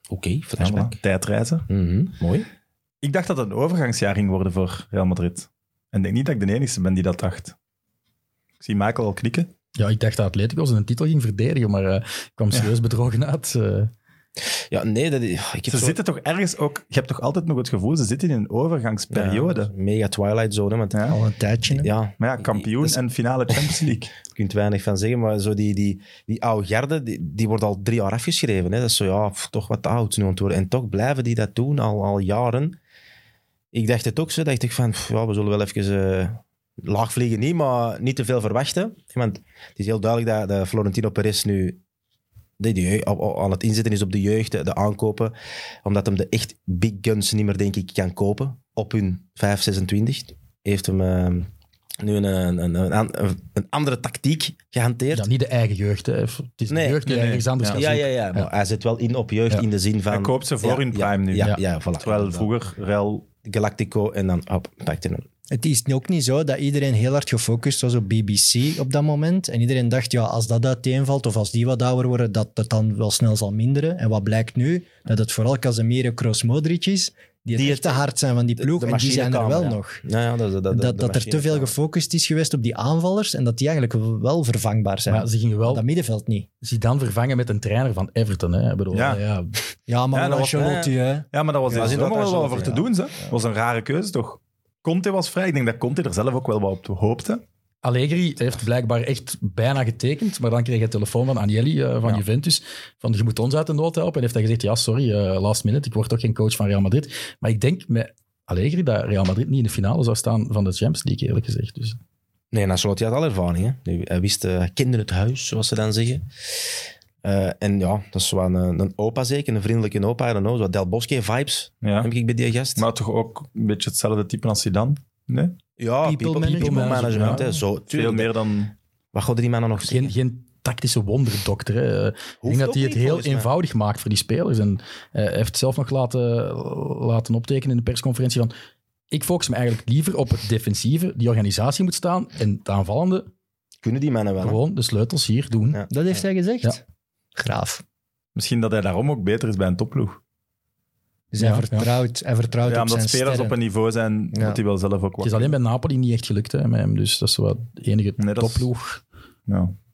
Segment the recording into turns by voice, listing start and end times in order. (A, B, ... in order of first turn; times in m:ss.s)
0:00.1-0:01.0 A
0:00.6-0:01.7 B
0:01.7-0:02.5 A
0:03.0-0:07.6 B
0:08.6-0:09.5 B
0:09.8-0:13.9 C
0:14.7-0:16.0 A
0:15.7-0:19.7 B
0:19.1-0:21.2 A
0:20.9-0:21.2 B
0:21.1-0:21.9 D
0:21.7-0:23.0 A
0:22.2-0:24.1 B
0:23.7-0:32.8 A
0:33.7-0:41.8 A
0:42.6-0:51.5 A
0:52.0-0:55.3 A
0:55.1-0:58.5 C
0:56.7-1:02.5 A
0:57.1-0:57.8 B
1:00.1-1:03.3 B
1:03.4-1:05.3 A
1:05.5-1:20.0 D
1:17.5-1:18.0 A
1:18.6-1:21.7 A
1:20.7-1:26.5 D
1:25.1-1:25.8 C
1:26.6-1:29.6 C
1:28.9-1:29.2 B
1:29.9-1:32.0 D
1:30.1-1:30.8 B
1:30.5-1:30.9 A
1:31.3-1:37.4 B
1:31.7-1:32.8 A
1:37.8-1:52.0 C
1:52.5-1:56.3 A
1:57.2-2:02.8 A
2:01.8-2:02.1 B
2:02.8-2:05.6 B
2:05.8-2:08.3 A
2:06.0-2:07.6 D
2:06.4-2:07.5 C
2:07.1-2:08.7 B
2:09.1-2:10.1 A
2:09.8-2:18.5 C
2:12.4-2:13.5 A
2:19.1-2:23.3 C
2:23.8-2:24.6 A
2:24.4-2:25.8 C
2:25.9-2:26.8 D
2:27.4-2:27.8 D
2:28.4-2:30.2 B
2:31.3-2:33.6 D
2:31.4-2:31.9 C
2:32.6-2:35.6 B
2:34.3-2:34.6 D
2:35.2-2:39.0 C
2:38.2-2:38.7 B
2:39.5-2:39.8 B